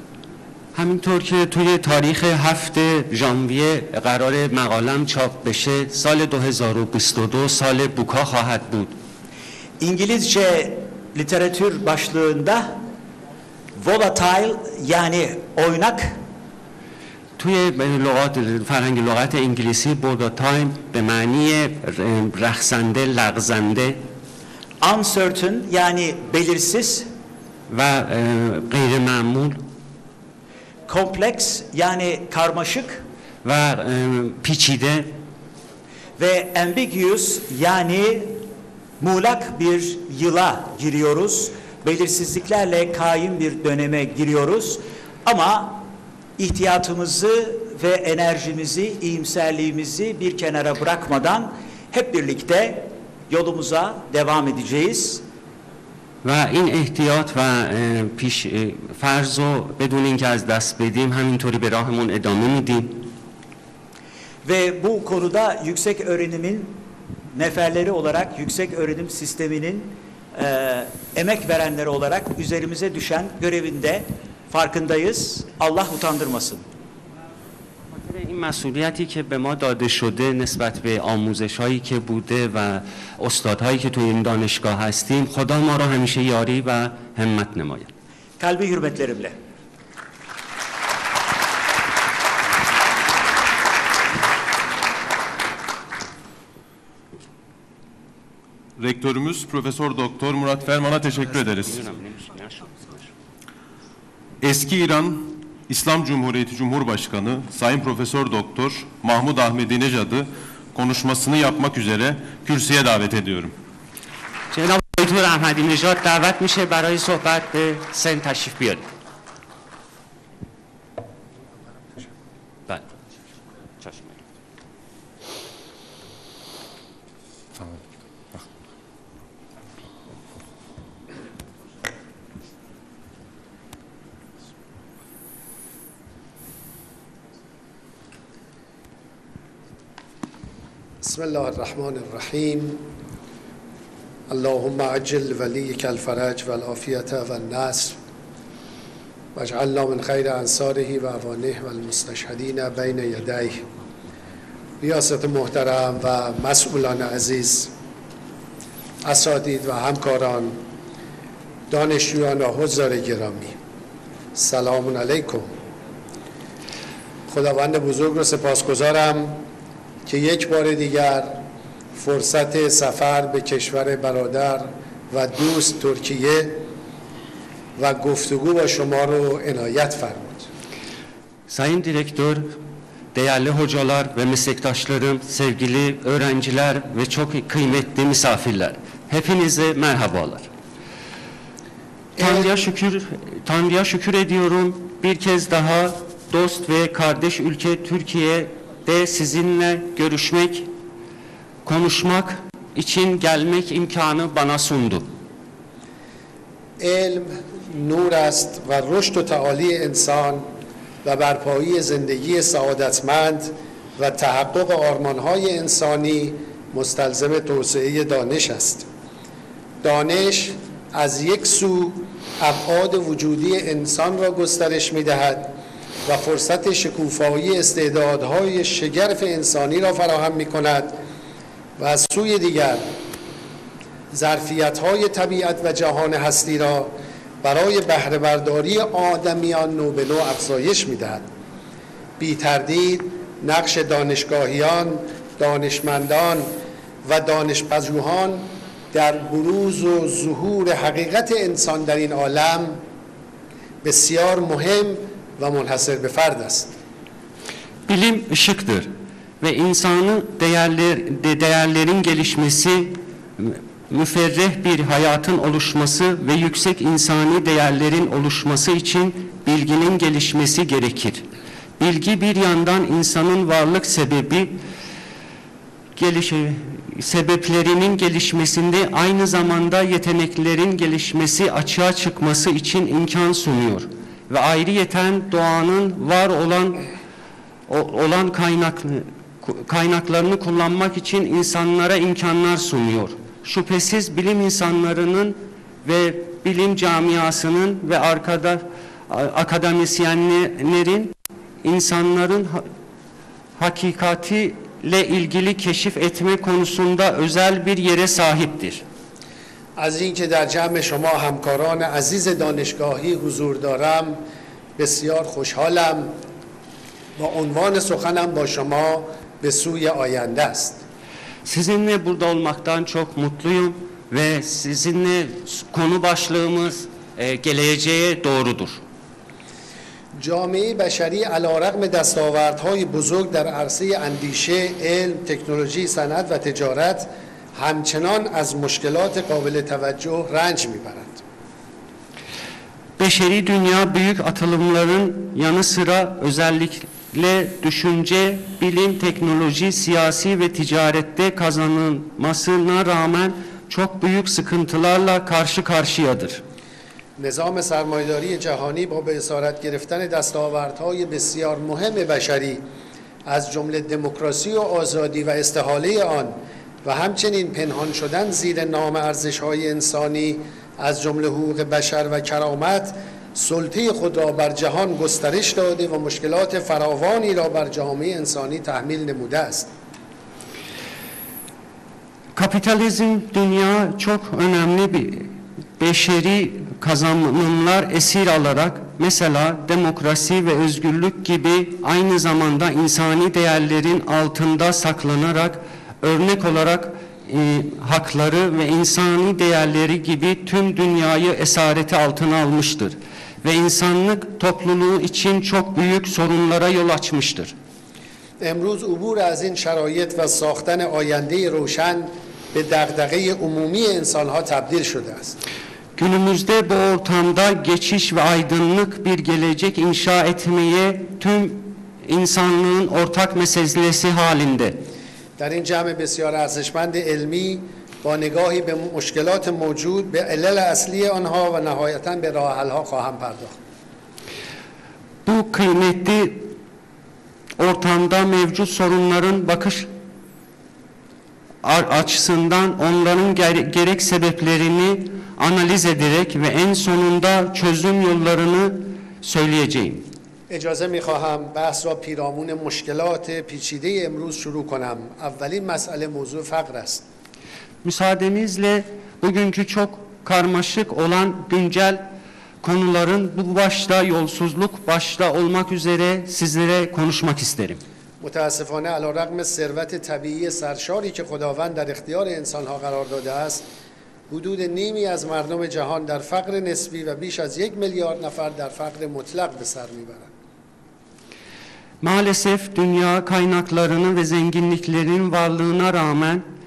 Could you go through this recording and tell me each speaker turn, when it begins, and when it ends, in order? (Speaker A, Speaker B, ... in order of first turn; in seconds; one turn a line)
Speaker A: 0.7-8.9
Speaker B: 9.8-12.8
Speaker B: 13.7-16.2
Speaker A: 17.4-24.0
Speaker B: 24.8-27.1
Speaker A: 27.7-29.6
Speaker B: 30.9-33.0
Speaker A: 33.4-35.1
Speaker B: 36.2-38.4
Speaker B: 39.0-55.2
Speaker A: 56.2-63.1
Speaker B: 64.4-76.6
Speaker A: 77.9-87.9
Speaker B: 88.4-89.4
Speaker C: 98.8-101.8
Speaker A: 101.6-102.9
Speaker C: 104.4-113.5
Speaker A: 114.5-118.8
Speaker A: 123.8-124.2
Speaker D: 141.0-142.9
Speaker D: 144.3-148.0
Speaker D: 149.3-153.7
Speaker D: 154.8-157.7
Speaker D: 159.0-160.6
Speaker D: 161.7-163.6
Speaker D: 164.3-165.5
Speaker D: 167.3-169.4
Speaker D: 170.1-171.4
Speaker D: 171.9-176.6
Speaker D: 177.8-180.5
Speaker A: 181.5-182.6
Speaker A: 183.1-190.5
Speaker A: 192.2-200.7
Speaker A: 201.7-205.1
Speaker D: 206.8-210.5
Speaker D: 211.0-218.9
Speaker D: 219.8-225.5
Speaker D: 226.1-231.0
Speaker D: 231.8-232.9
Speaker D: 234.1-241.2
Speaker D: 242.2-246.5
Speaker D: 247.0-252.8
Speaker D: 253.8-256.7
Speaker A: 257.9-271.2
Speaker A: 271.8-274.6
Speaker A: 275.9-286.9
Speaker A: 287.7-302.6
Speaker A: 303.6-308.8
Speaker D: 309.8-314.2
Speaker D: 314.8-316.1
Speaker D: 317.1-320.8
Speaker A: 321.4-328.8
Speaker D: 330.2-341.2
Speaker A: 343.0-356.4
Speaker D: 357.2-362.6
Speaker D: 363.2-379.7
Speaker A: 382.3-407.5
Speaker D: 408.4-415.4
Speaker A: 416.0-424.8
Speaker D: 425.4-433.6
Speaker A: 435.2-436.5
Speaker A: 437.6-439.9
Speaker A: 441.6-450.1
Speaker D: 450.5-457.0
Speaker A: 457.8-462.1
Speaker A: 462.6-467.8
Speaker D: 468.2-473.6
Speaker D: 474.3-480.3
Speaker A: 482.0-486.4